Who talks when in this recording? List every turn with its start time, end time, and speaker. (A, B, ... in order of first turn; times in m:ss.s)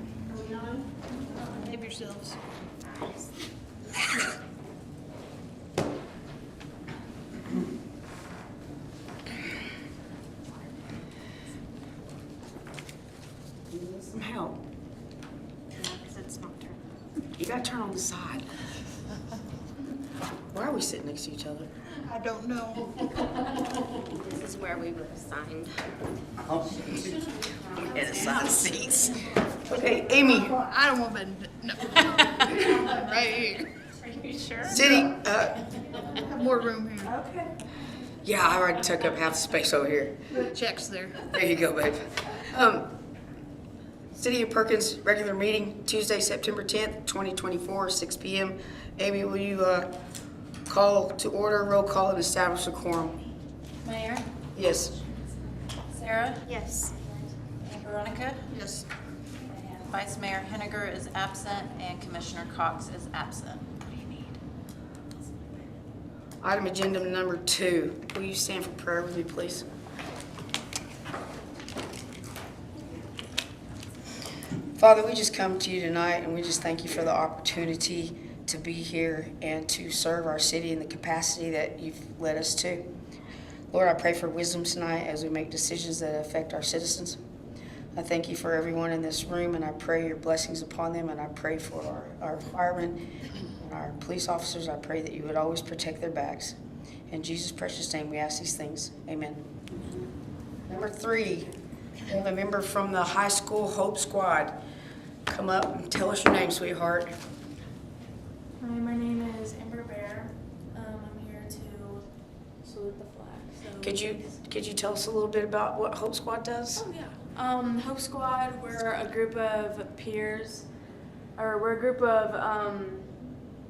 0:00.3-0:00.9 A
0:01.5-0:02.4 B
0:14.1-0:14.6 C
0:17.4-0:18.5 C
0:20.5-0:21.7 C
0:22.0-0:23.3 B
0:26.5-0:27.1 C
0:26.7-0:29.4 A
0:27.9-0:30.6 C
0:30.2-0:33.7 B
0:32.2-0:32.8 A
0:33.9-0:35.1 A
0:34.6-0:35.6 C
0:35.6-0:36.2 A
0:36.1-0:37.3 B
0:38.2-0:40.4 C
0:40.3-0:41.3 B
0:41.3-0:42.9 C
0:44.1-0:49.9 C
0:50.7-0:53.2 C
0:53.8-0:54.2 D
0:54.5-0:55.0 C
0:55.9-0:56.5 D
0:56.5-0:57.3 E
0:56.5-0:56.8 A
0:57.6-0:58.4 D
0:58.5-0:58.8 C
0:59.8-1:03.8 D
1:06.4-1:09.6 C
1:14.8-1:22.9 C
1:23.7-1:27.2 C
1:28.0-1:33.0 C
1:33.6-1:36.6 C
1:37.1-1:39.4 C
1:40.7-1:41.5 C
1:42.0-1:44.6 C
1:45.3-1:47.1 C
1:48.6-1:52.1 E
1:52.6-1:54.2 E
1:53.8-1:56.8 C
1:56.7-2:00.7 E
2:01.4-2:03.1 E